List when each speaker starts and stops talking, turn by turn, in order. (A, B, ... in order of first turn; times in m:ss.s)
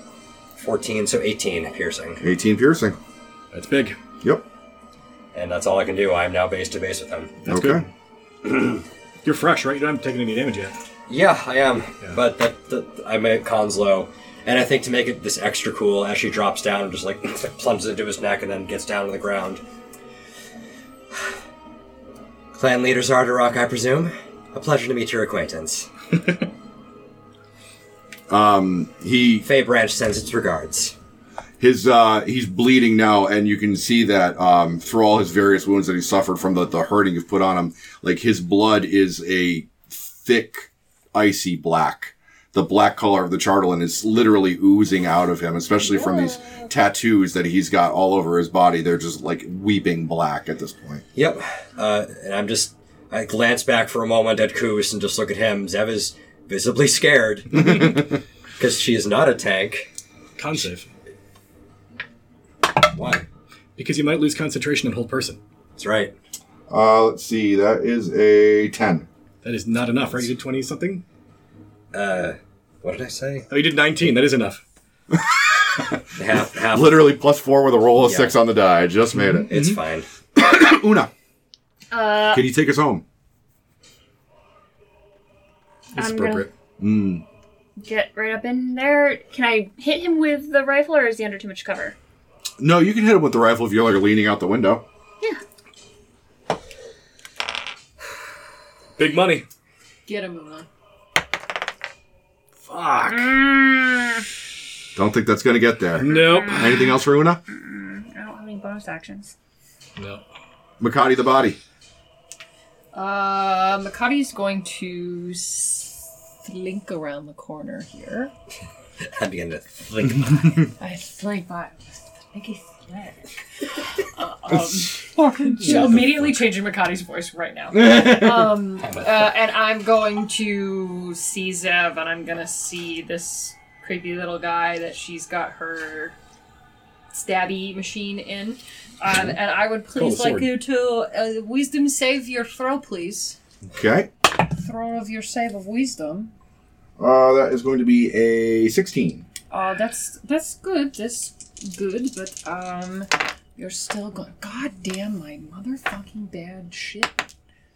0:00.6-0:02.2 A
0:02.2-0:03.0 B
0:03.5-0:04.0 C
0:05.3-0:07.4 A
0:07.4-0:07.9 C
0:07.5-0:07.8 B
0:09.2-0:10.7 C
0:11.1-0:19.6 A
0:22.5-0:25.9 A
0:28.3-0:29.5 B
0:29.4-0:30.9 A
0:31.6-0:51.0 B
0:51.1-0:58.0 A
0:58.6-0:59.9 A
1:00.4-1:00.9 C
1:02.9-1:03.2 A
1:03.8-1:05.4 C
1:05.8-1:06.1 A
1:06.7-1:09.1 B
1:09.4-1:11.0 C
1:11.9-1:13.5 A
1:13.5-1:14.6 C
1:15.1-1:16.0 B
1:16.1-1:17.1 A
1:16.6-1:19.5 B
1:18.0-1:18.4 A
1:19.5-1:20.1 A
1:20.3-1:21.1 B
1:21.9-1:22.4 D
1:22.3-1:23.0 B
1:25.9-1:26.5 C
1:25.9-1:26.5 D
1:26.8-1:27.2 B
1:27.8-1:31.9 D
1:32.6-1:34.8 B
1:39.0-1:39.4 C
1:40.0-1:40.7 E
1:42.6-1:43.4 C
1:43.0-1:44.2 D
1:44.9-1:47.4 B
1:46.0-1:46.8 C
1:46.1-1:47.0 D
1:47.5-1:49.3 D
1:50.0-1:50.2 C
1:50.8-1:51.6 B
1:52.9-1:58.3 E
1:59.0-2:00.7 A
2:00.7-2:01.8 E
2:02.3-2:03.3 E
2:04.2-2:16.2 E
2:04.5-2:05.0 B
2:05.6-2:06.4 C
2:17.1-2:23.4 E
2:19.9-2:20.5 C
2:23.7-2:24.1 B
2:24.3-2:26.3 E
2:27.0-2:29.2 B
2:29.5-2:37.3 E